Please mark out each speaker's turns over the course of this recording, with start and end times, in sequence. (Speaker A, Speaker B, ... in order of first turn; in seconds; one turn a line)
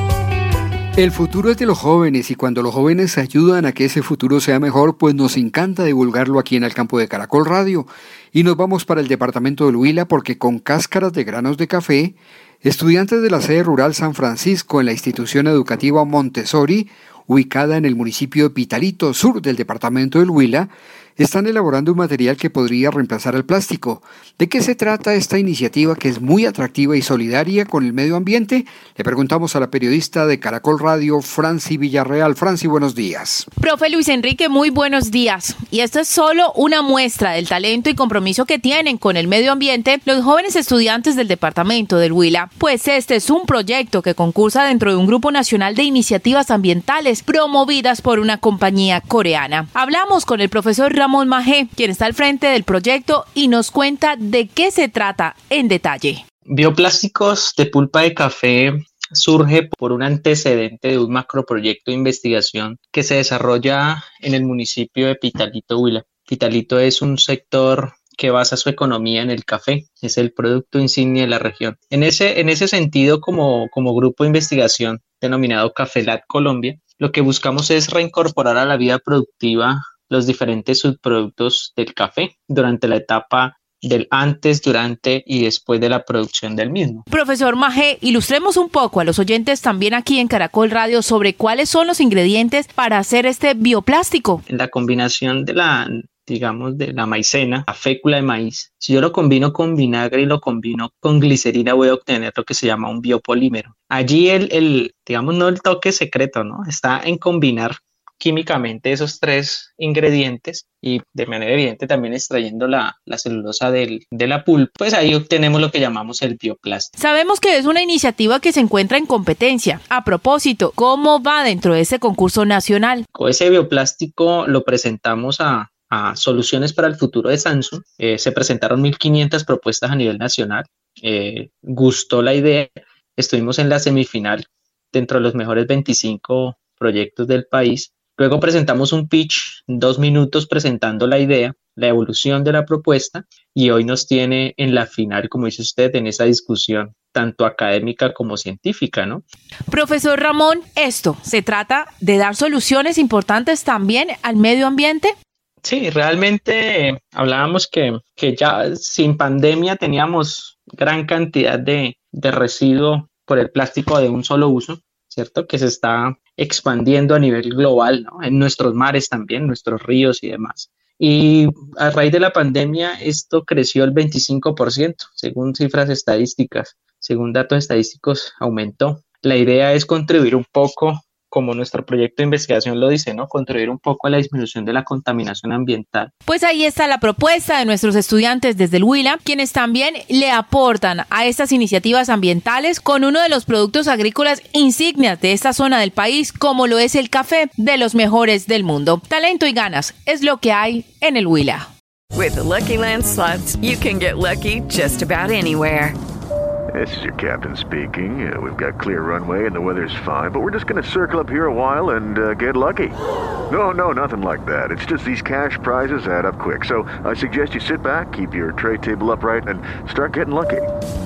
Speaker A: 1.0-33.5
Speaker B: 33.6-56.2
Speaker C: 56.5-87.0
Speaker B: 87.1-94.4
Speaker C: 94.5-116.9
Speaker B: 117.0-123.0
Speaker C: 123.1-149.2
Speaker B: 149.7-155.1
Speaker C: 155.6-186.1
Speaker B: 186.2-201.7
Speaker D: 202.1-206.0
Speaker E: 206.7-212.9
Speaker E: 213.5-220.7